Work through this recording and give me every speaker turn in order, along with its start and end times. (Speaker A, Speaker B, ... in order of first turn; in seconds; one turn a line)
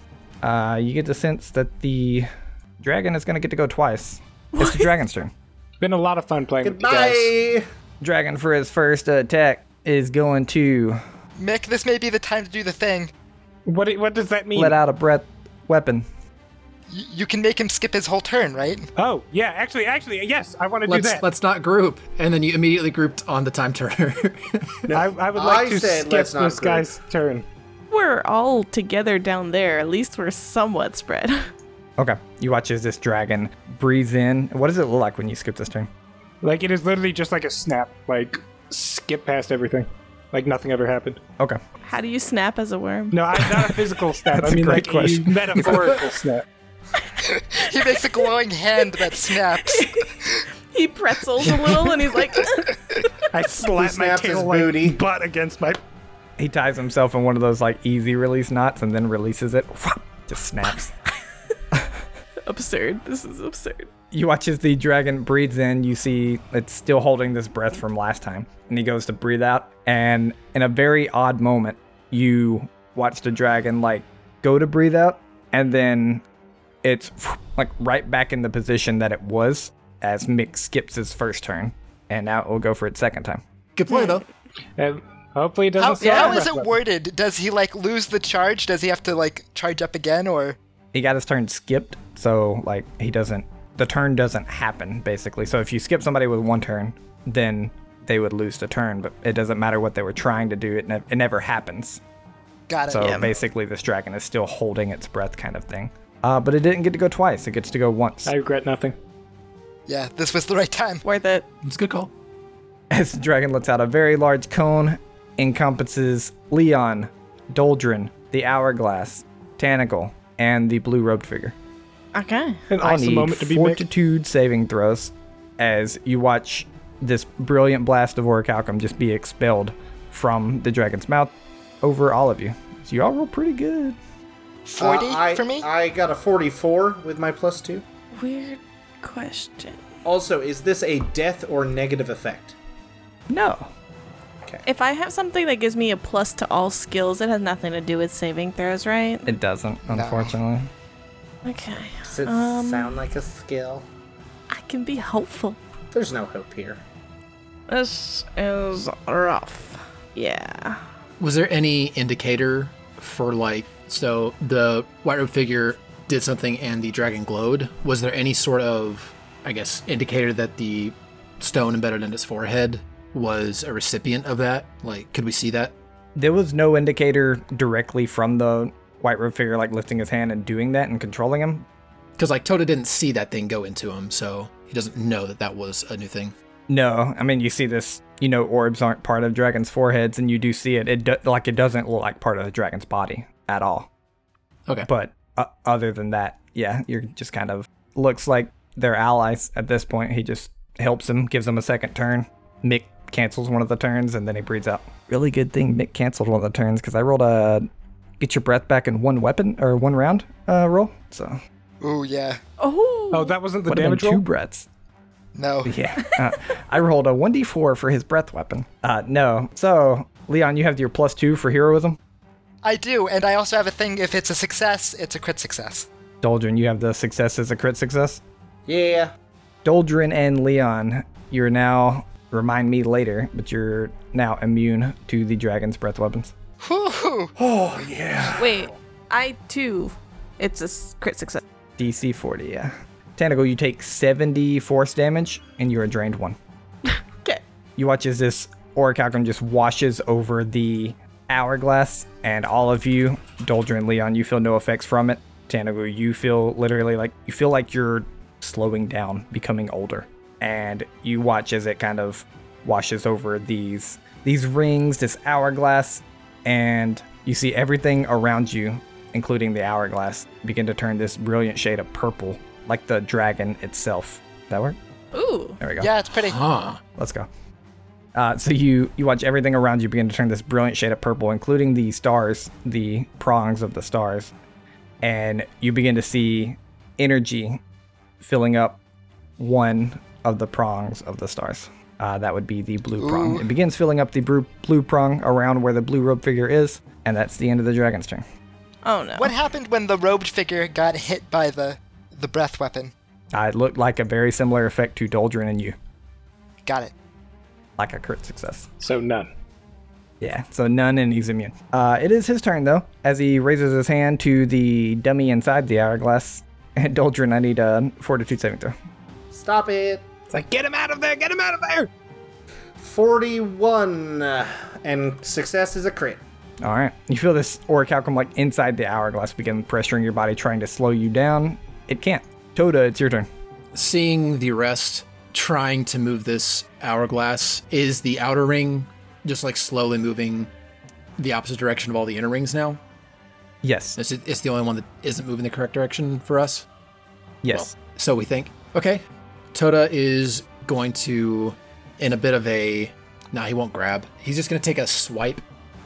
Speaker A: 0.4-2.3
Speaker A: 2.8-5.3
Speaker B: 4.5-4.9
Speaker C: 5.8-7.3
Speaker D: 6.6-7.6
Speaker A: 8.0-11.0
Speaker E: 11.4-13.1
Speaker C: 13.7-14.8
Speaker A: 14.6-16.1
Speaker E: 16.9-18.9
Speaker C: 19.0-21.2
Speaker F: 20.9-25.0
Speaker C: 24.9-27.5
Speaker D: 25.4-26.9
Speaker B: 27.9-31.4
Speaker A: 32.0-35.9
Speaker C: 36.4-41.2
Speaker B: 41.9-43.2
Speaker C: 43.1-46.5
Speaker A: 44.3-45.9
Speaker E: 47.3-50.4
Speaker B: 47.7-48.0
Speaker B: 48.8-53.1
Speaker C: 53.3-55.8
Speaker D: 53.6-55.0
Speaker A: 56.4-60.9
Speaker B: 62.4-63.9
Speaker A: 64.1-76.2
Speaker A: 76.8-83.4
Speaker F: 83.8-84.2
Speaker B: 83.9-84.2
Speaker C: 84.8-86.8
Speaker E: 85.8-90.6
Speaker B: 86.0-86.4
Speaker A: 90.9-102.0
Speaker E: 102.7-103.3
Speaker A: 102.9-108.3
Speaker B: 103.0-103.3
Speaker C: 108.2-109.0
Speaker E: 109.9-111.0
Speaker B: 111.0-111.5
Speaker F: 111.6-112.1
Speaker A: 112.9-121.6
Speaker B: 122.1-122.7
Speaker C: 122.7-123.8
Speaker A: 122.8-134.0
Speaker E: 134.7-135.7
Speaker D: 134.8-137.8
Speaker B: 138.2-139.8
Speaker D: 140.1-142.6
Speaker A: 143.3-143.7
Speaker B: 144.7-149.3
Speaker A: 149.3-150.7
Speaker E: 149.9-150.4
Speaker B: 151.4-152.9
Speaker D: 152.1-153.9
Speaker B: 154.5-155.6
Speaker D: 155.9-156.8
Speaker B: 157.7-160.8
Speaker F: 161.2-175.8
Speaker A: 176.2-181.7
Speaker F: 182.2-186.3
Speaker A: 186.7-193.9
Speaker A: 194.9-207.7
Speaker A: 208.2-211.4
Speaker E: 211.8-212.4
Speaker B: 212.6-213.4
Speaker C: 213.1-214.2
Speaker A: 213.7-214.7
Speaker E: 215.3-215.8
Speaker A: 215.7-222.0
Speaker E: 222.6-225.9
Speaker A: 226.2-228.2
Speaker D: 228.7-229.1
Speaker A: 229.7-236.3
Speaker E: 236.6-237.3
Speaker D: 237.4-238.7
Speaker B: 238.4-241.4
Speaker A: 241.8-246.4
Speaker B: 246.9-247.4
Speaker A: 247.8-274.8
Speaker B: 275.1-275.6
Speaker A: 275.6-275.9
Speaker E: 275.8-276.4
Speaker F: 276.2-276.8
Speaker A: 277.0-277.3
Speaker A: 278.1-284.3
Speaker A: 285.0-287.6
Speaker A: 288.2-288.8
Speaker A: 289.4-298.2
Speaker E: 293.0-293.4
Speaker B: 298.9-299.3
Speaker E: 299.2-302.9
Speaker A: 303.3-305.8
Speaker E: 306.7-306.9
Speaker A: 307.8-308.7
Speaker C: 308.8-309.3
Speaker A: 310.2-318.8
Speaker D: 319.3-320.1
Speaker C: 320.3-321.9
Speaker D: 322.8-326.2
Speaker A: 326.6-333.3
Speaker F: 333.7-340.5
Speaker F: 341.2-342.8
Speaker A: 343.6-344.0
Speaker F: 344.0-346.7
Speaker A: 347.4-347.8
Speaker F: 347.5-349.0
Speaker F: 349.5-355.4